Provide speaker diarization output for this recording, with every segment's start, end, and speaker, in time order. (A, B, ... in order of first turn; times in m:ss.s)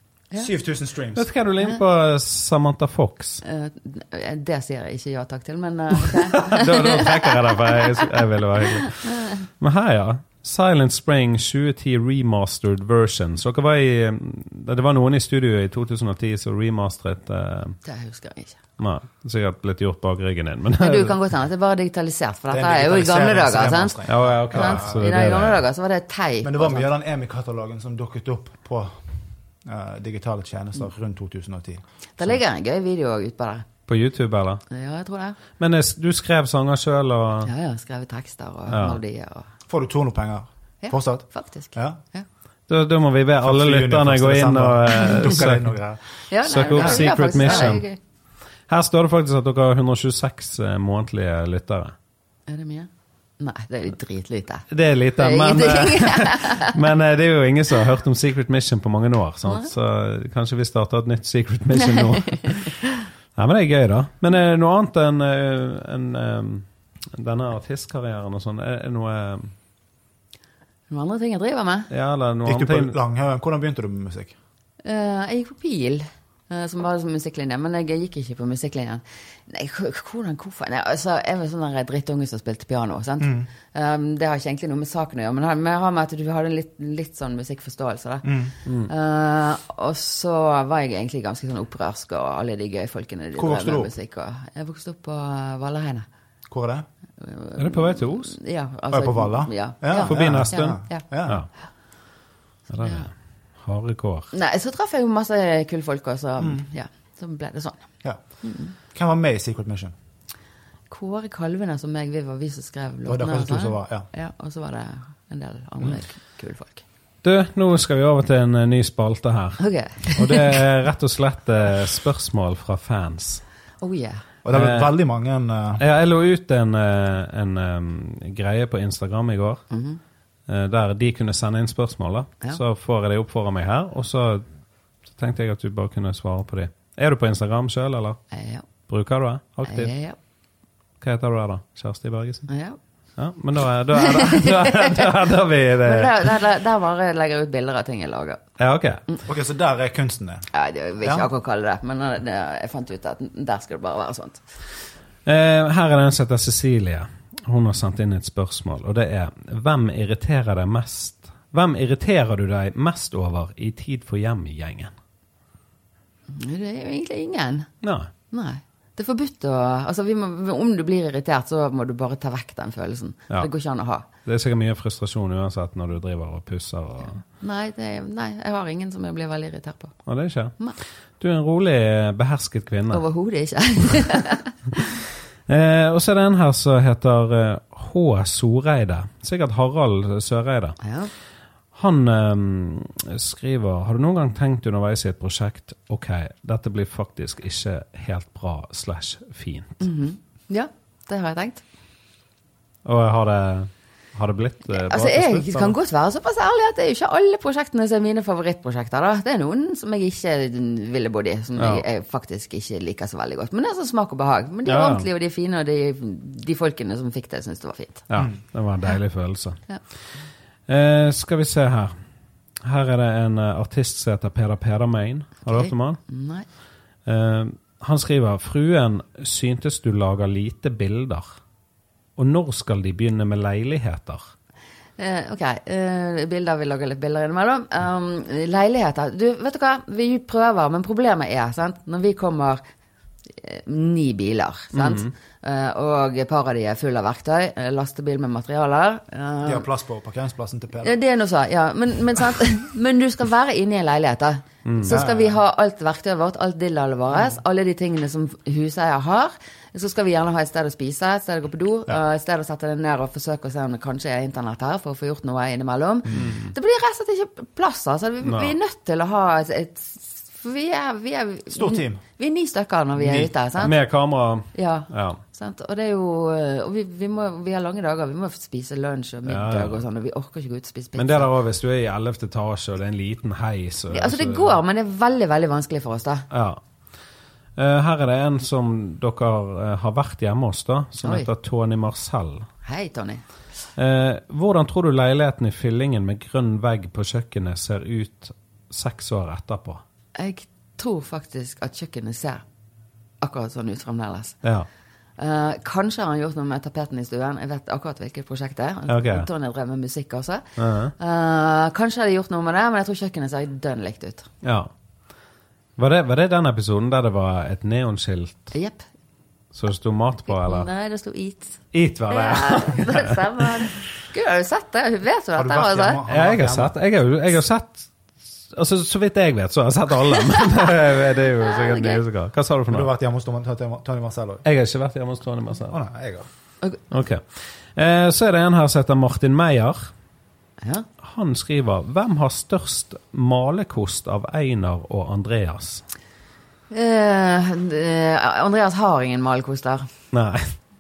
0:00.4-0:01.3 A
0:01.2-0:03.4 B
0:03.4-0:08.1 C
0:06.0-0:17.8 B
0:08.8-0:09.4 C
0:17.8-0:18.6 C
0:18.8-0:21.2 B
0:20.8-0:26.9 C
0:22.5-0:25.0 A
0:24.1-0:25.6 B
0:26.4-0:29.0 A
0:29.6-0:31.8 A
0:32.2-0:33.7 C
0:33.9-0:34.6 B
0:34.7-0:35.4 C
0:35.6-0:37.5 B
0:37.4-0:39.5 C
0:38.7-0:39.0 B
0:39.7-0:42.0 A
0:40.8-0:42.3 C
0:42.7-0:45.7 B
0:43.4-0:46.0 A
0:46.3-0:48.0 C
0:46.4-0:47.8 B
0:46.8-0:47.8 A
0:48.7-0:52.0 B
0:52.5-0:56.8 C
0:54.7-1:02.8 B
1:01.8-1:02.8 C
1:03.4-1:09.5 B
1:10.9-1:11.9 C
1:11.9-1:13.0 B
1:12.4-1:14.4 A
1:14.8-1:36.1 C
1:23.2-1:23.5 A
1:28.2-1:28.5 A
1:33.4-1:33.9 A
1:36.5-1:36.9 A
1:37.2-1:41.0 C
1:37.6-1:38.4 B
1:38.9-1:41.4 A
1:39.9-1:41.5 B
1:42.7-1:44.3 B
1:42.8-1:43.1 C
1:44.3-1:47.9 C
1:48.4-1:48.7 C
1:48.9-1:49.9 A
1:50.9-1:56.8 C
1:53.1-1:54.1 A
1:57.2-2:03.4 B
1:59.6-2:00.7 C
2:03.8-2:04.2 C
2:04.4-2:05.8 A
2:04.5-2:04.9 B
2:05.8-2:09.6 B
2:09.7-2:10.0 C
2:10.5-2:14.4 B
2:15.1-2:18.2 B
2:18.3-2:18.7 C
2:18.9-2:19.9 B
2:19.6-2:20.2 C
2:21.0-2:22.5 B
2:22.5-2:22.8 C
2:23.2-2:26.3 B
2:23.9-2:25.1 C
2:25.8-2:28.4 C
2:28.6-2:29.0 B
2:29.2-2:30.5 A
2:30.5-2:34.4 C
2:31.0-2:31.3 A
2:35.3-2:44.9 B
2:46.3-2:47.7 C
2:47.8-2:48.1 B
2:48.3-2:54.1 C
2:54.2-2:57.2 B
2:57.4-3:00.0 C
3:00.1-3:00.6 B
3:01.2-3:03.0 B
3:02.9-3:04.8 C
3:05.5-3:10.8 B
3:10.8-3:11.1 C
3:11.7-3:19.8 B
3:19.8-3:21.6 C
3:22.8-3:25.8 B
3:24.7-3:38.1 C
3:31.6-3:31.8 B
3:34.6-3:35.1 B
3:38.1-3:39.6 B
3:40.7-3:41.9 B
3:42.6-3:46.0 B
3:45.5-3:46.5 C
3:47.1-3:51.4 B
3:52.2-3:54.3 B
3:55.0-4:02.6 C
4:03.3-4:09.7 C
4:04.7-4:05.1 B
4:09.4-4:11.0 A
4:10.8-4:33.8 C
4:14.6-4:15.0 B
4:14.9-4:15.4 A
4:26.2-4:26.5 B
4:28.2-4:28.6 B
4:31.5-4:32.0 A
4:33.0-4:33.3 A
4:33.6-4:35.2 B
4:34.5-4:41.3 C
4:39.3-4:39.8 B
4:41.0-4:44.6 B
4:43.9-4:46.3 C
4:46.3-4:46.6 B
4:47.6-4:52.5 B
4:51.0-4:51.3 C
4:52.6-4:53.2 C
4:53.8-4:59.8 B
5:00.2-5:02.4 C
5:03.2-5:04.4 C
5:05.2-5:14.3 C
5:08.9-5:09.3 B
5:10.6-5:10.9 B
5:14.4-5:14.7 B
5:15.8-5:18.5 B
5:18.5-5:18.9 C
5:19.5-5:20.7 B
5:20.3-5:26.0 C
5:21.7-5:23.4 B
5:25.4-5:26.7 A
5:26.1-5:27.9 B
5:28.5-5:32.9 B
5:30.3-5:30.7 C
5:31.4-5:32.0 C
5:32.7-5:34.4 A
5:34.4-5:35.8 B
5:35.7-5:36.3 A
5:36.9-5:39.9 B
5:40.6-5:40.9 C
5:41.0-5:45.8 B
5:46.7-5:49.9 C
5:50.1-5:50.6 B